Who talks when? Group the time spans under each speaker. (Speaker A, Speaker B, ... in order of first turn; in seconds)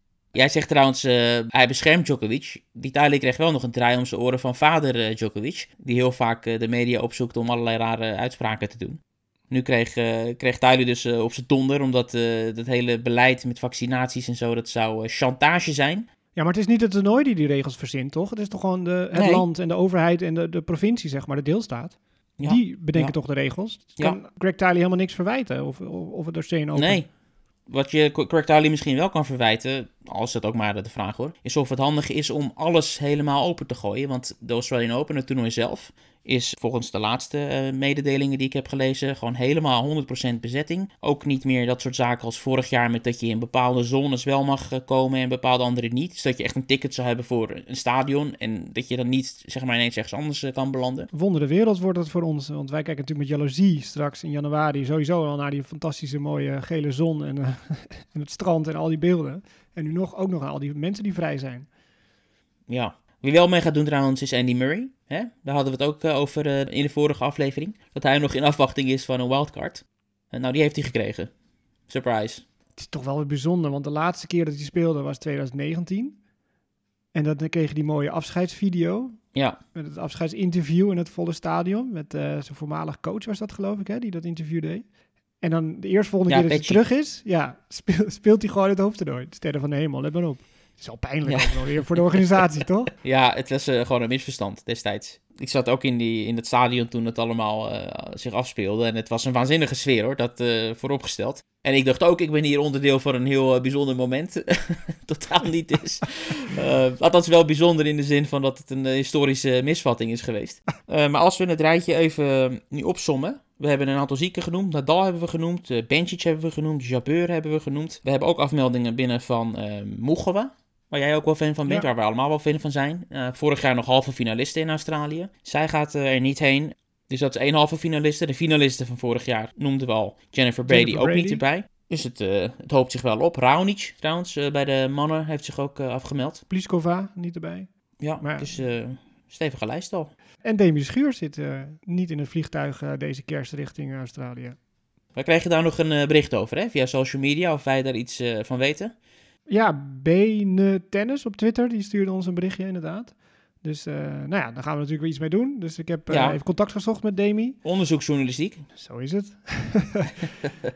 Speaker A: 0.3-16.1, 19.1-19.5, 22.4-23.2, 26.8-27.1, 27.7-51.1, 62.7-71.3, 71.9-72.5, 86.3-86.8, 91.3-92.3, 93.0-136.4, 138.0-140.1, 145.2-148.9, 156.1-156.4, 157.6-158.6
Speaker B: 16.4-27.0, 51.1-61.7, 72.8-76.2, 77.1-79.2, 79.7-84.9, 85.4-92.9, 130.7-131.4, 136.5-138.5, 140.4-144.6, 149.5-157.6, 158.8-160.2